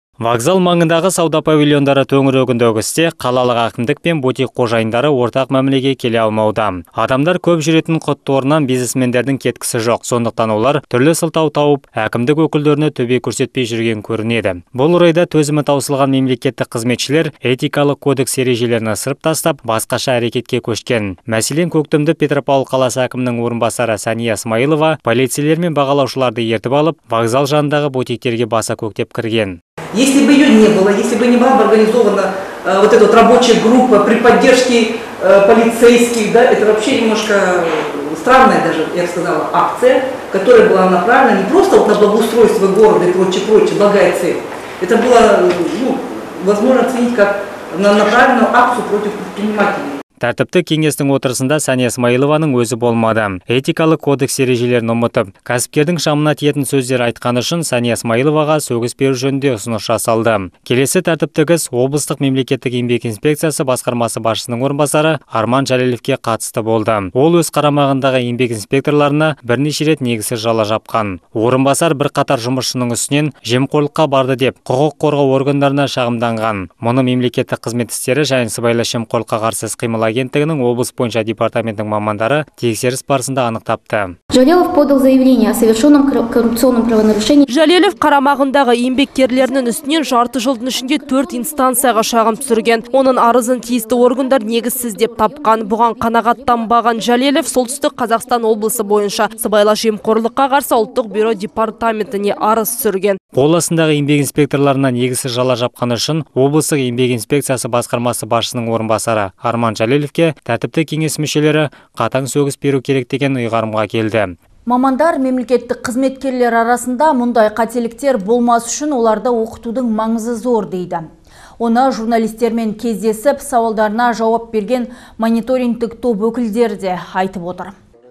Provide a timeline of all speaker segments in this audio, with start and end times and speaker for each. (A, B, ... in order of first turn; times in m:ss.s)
0:00.2-0:29.6 A
0:29.9-0:50.0 B
0:50.2-1:24.2 A
1:24.3-1:27.4 C
1:27.5-1:43.2 D
1:43.4-1:54.3 A
1:54.7-2:01.1 E
2:01.6-2:07.8 E